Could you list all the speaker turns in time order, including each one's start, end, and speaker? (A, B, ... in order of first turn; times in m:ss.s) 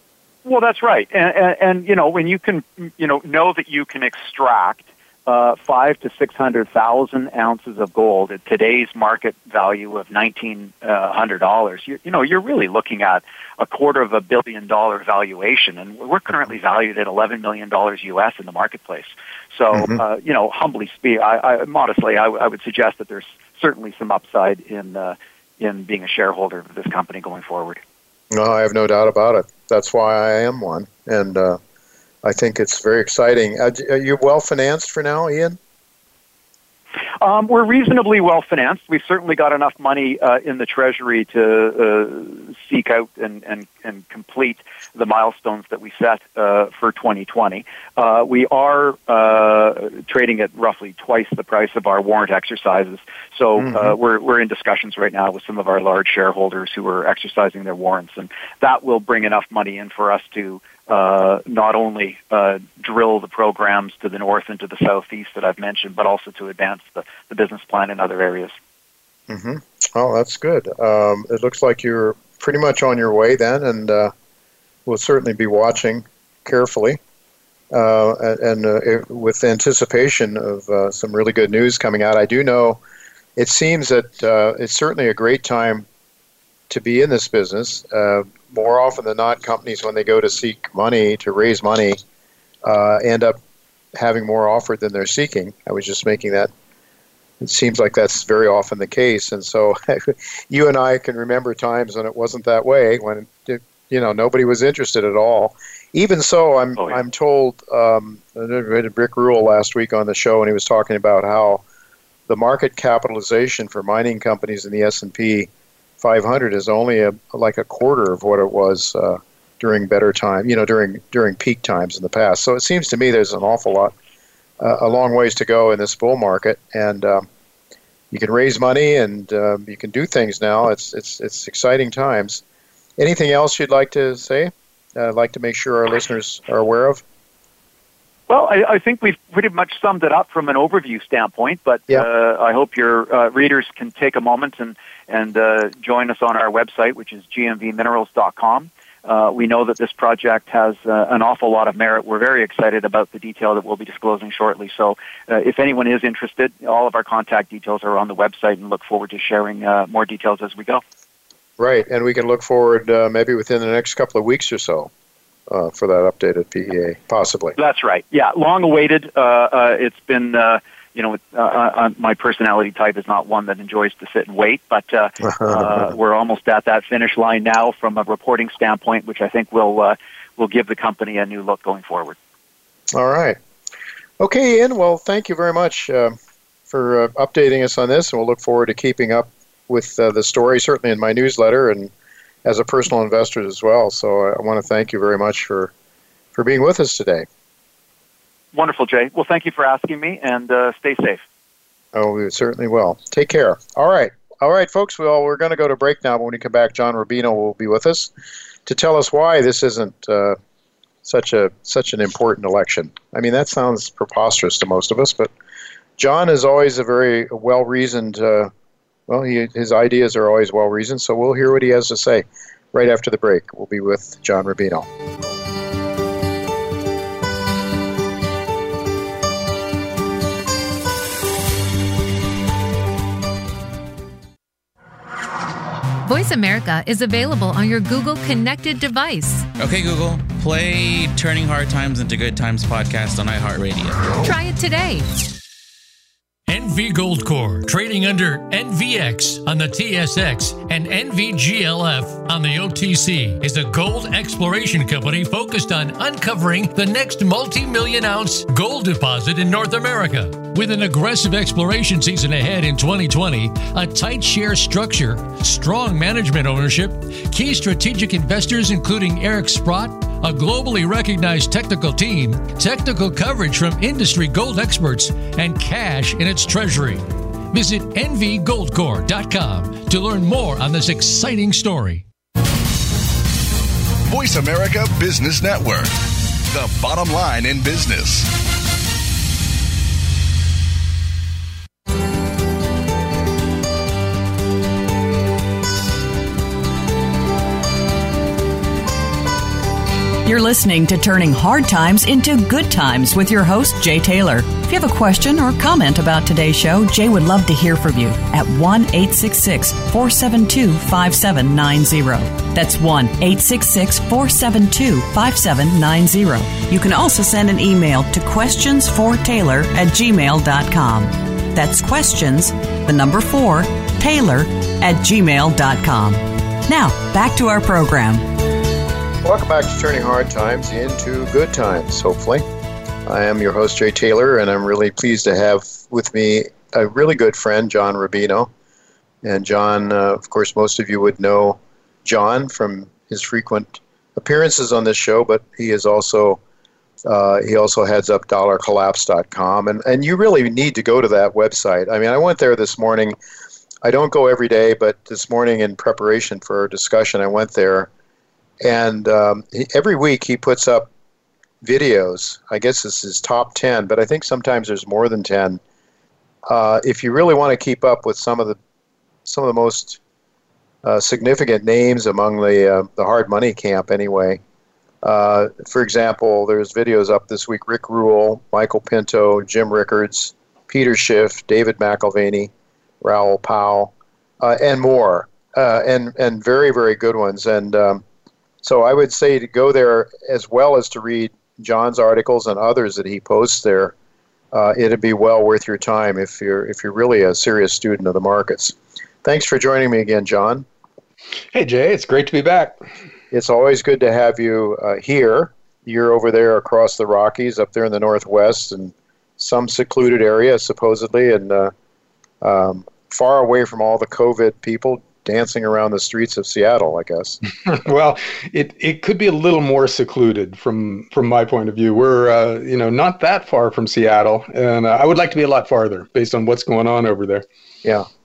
0:00.4-0:27.8 A
0:19.7-0:20.0 B
0:28.3-0:31.6 B
0:32.2-0:35.6 B
0:37.2-1:08.5 A
0:53.6-0:54.0 B
1:09.3-1:14.1 B
1:14.8-1:17.0 B
1:17.7-1:22.8 B
1:23.4-1:25.8 B
1:26.7-1:32.0 B
1:32.6-1:33.4 B
1:33.9-1:36.5 B
1:37.4-1:51.6 B
1:52.3-1:55.5 B
1:56.0-2:03.9 B
2:04.6-2:07.3 B
2:08.1-2:12.4 B
2:13.0-2:17.0 B
2:18.3-2:40.8 A
2:41.6-2:44.9 B
2:45.5-2:47.6 B
2:47.6-3:02.2 A
2:55.3-2:55.9 B
3:02.9-3:03.4 B
3:04.2-3:06.1 B
3:06.7-3:11.9 B
3:12.4-3:15.7 B
3:16.3-3:17.2 B
3:18.5-3:21.2 A
3:21.9-3:28.1 B
3:28.6-3:30.4 B
3:31.0-3:35.3 B
3:36.0-3:38.5 B
3:39.1-3:44.9 B
3:56.0-3:59.5 C
3:59.6-4:04.2 D
4:04.2-4:05.1 C
4:06.5-4:42.0 E
4:44.1-4:46.0 F
4:46.5-4:48.3 F
5:00.2-5:28.3 G
5:29.2-5:32.4 B
5:33.0-5:38.5 B
5:39.2-5:46.4 B
5:47.0-5:53.2 B
5:53.8-5:57.9 B
5:58.6-6:00.9 B
6:01.6-6:05.6 B
6:06.5-6:08.6 B
6:09.2-6:10.0 B
6:10.8-6:14.4 B
6:15.0-6:28.0 B
6:28.6-6:33.9 B
6:34.5-6:40.6 B
6:41.5-6:42.8 H
6:43.3-6:51.7 B
6:52.4-6:57.4 B
6:57.6-7:07.4 H